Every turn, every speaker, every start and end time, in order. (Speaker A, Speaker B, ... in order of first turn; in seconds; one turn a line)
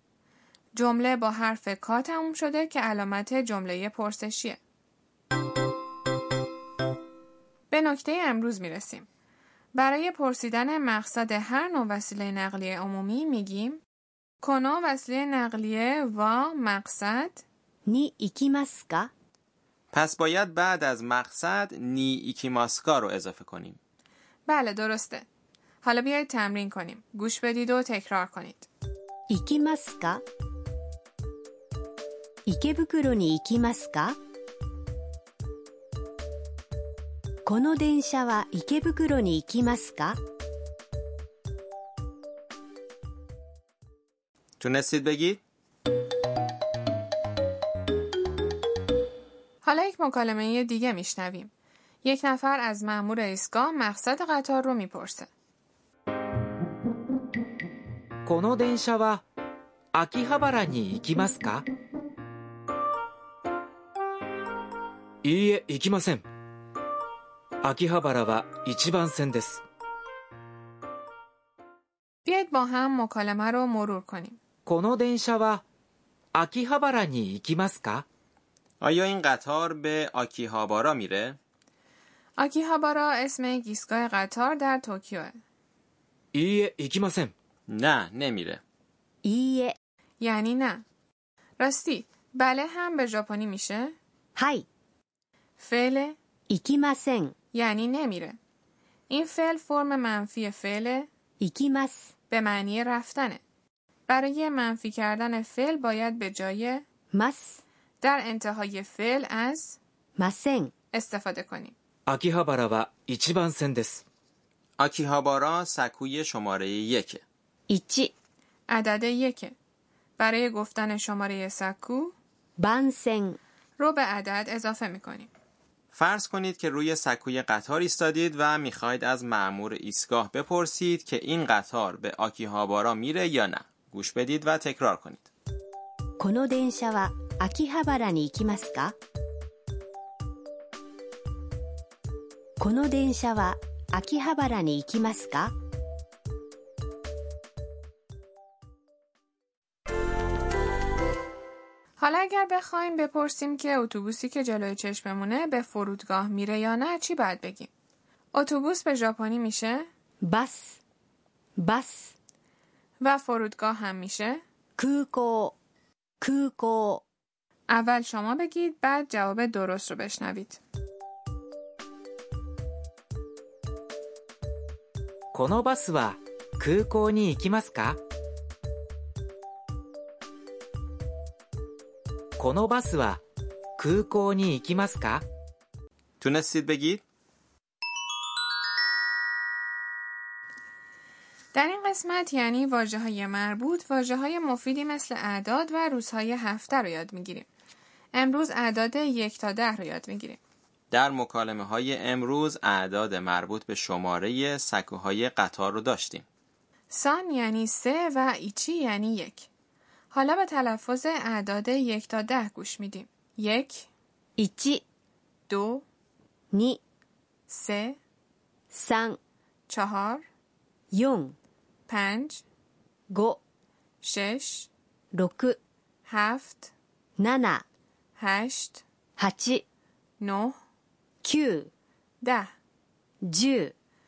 Speaker A: 0.8-4.6
Speaker A: 7.7-9.1
Speaker A: 9.8-13.8
Speaker A: 14.4-17.4
Speaker B: 17.9-19.1
Speaker C: 19.9-23.8
Speaker A: 24.5-25.3
Speaker A: 25.8-28.7
Speaker B: 29.3-30.2
Speaker B: 32.5-34.2
Speaker B: 37.5-40.2
Speaker C: 44.6-45.4
Speaker A: 49.6-51.5
Speaker A: 52.0-55.3
Speaker D: 58.3-59.2
Speaker D: 59.9-61.7
Speaker D: 65.2-66.2
Speaker D: 67.6-69.6
Speaker A: 72.2-74.4
Speaker D: 74.7-75.6
Speaker D: 76.3-78.0
Speaker C: 78.8-81.4
Speaker A: 82.4-85.4
Speaker D: 86.3-87.3
Speaker C: 87.7-88.6
Speaker B: 89.2-89.8
Speaker A: 90.2-90.8
Speaker A: 91.6-94.0
Speaker B: 94.4-94.7
Speaker A: 95.6-96.2
Speaker B: 96.5-97.3
Speaker A: 97.5-98.4
Speaker A: 99.1-101.1
Speaker B: 101.4-102.1
Speaker A: 102.3-103.4
Speaker A: 104.1-106.8
Speaker B: 107.1-107.6
Speaker A: 108.0-109.8
Speaker B: 110.2-110.7
Speaker A: 110.9-111.7
Speaker D: 112.1-114.0
Speaker C: 114.8-117.2
Speaker B: 117.7-118.1
Speaker A: 118.7-119.5
Speaker A: 120.2-122.1
Speaker B: 122.6-123.4
Speaker A: 123.8-125.3
Speaker C: 125.9-135.3
Speaker B: 136.2-138.9
Speaker B: 142.6-145.5
Speaker A: 152.0-157.7
Speaker A: 158.3-159.9
Speaker B: 160.2-160.8
Speaker B: 161.6-162.2
Speaker A: 163.0-164.4
Speaker B: 164.8-165.6
Speaker B: 166.2-167.0
Speaker A: 167.7-170.6
Speaker D: 175.3-178.0
Speaker D: 182.4-183.2
Speaker D: 183.8-185.2
Speaker C: 186.2-187.0
Speaker A: 191.5-197.5
Speaker A: 198.1-200.4
Speaker C: 200.9-206.3
Speaker A: 206.9-209.5
Speaker A: 210.1-213.9
Speaker B: 214.4-214.8
Speaker A: 215.5-215.8
Speaker B: 216.5-216.8
Speaker A: 217.5-218.0
Speaker B: 218.7-219.2
Speaker A: 219.7-220.2
Speaker B: 220.9-221.4
Speaker A: 221.9-222.4
Speaker B: 223.1-223.4
Speaker A: 224.0-224.7
Speaker B: 225.1-225.6
Speaker A: 226.1-226.7
Speaker B: 227.2-227.6
Speaker A: 228.2-228.8
Speaker B: 229.2-229.6
Speaker A: 230.2-230.6
Speaker B: 231.2-231.7
Speaker A: 232.2-232.5
Speaker B: 233.2-233.7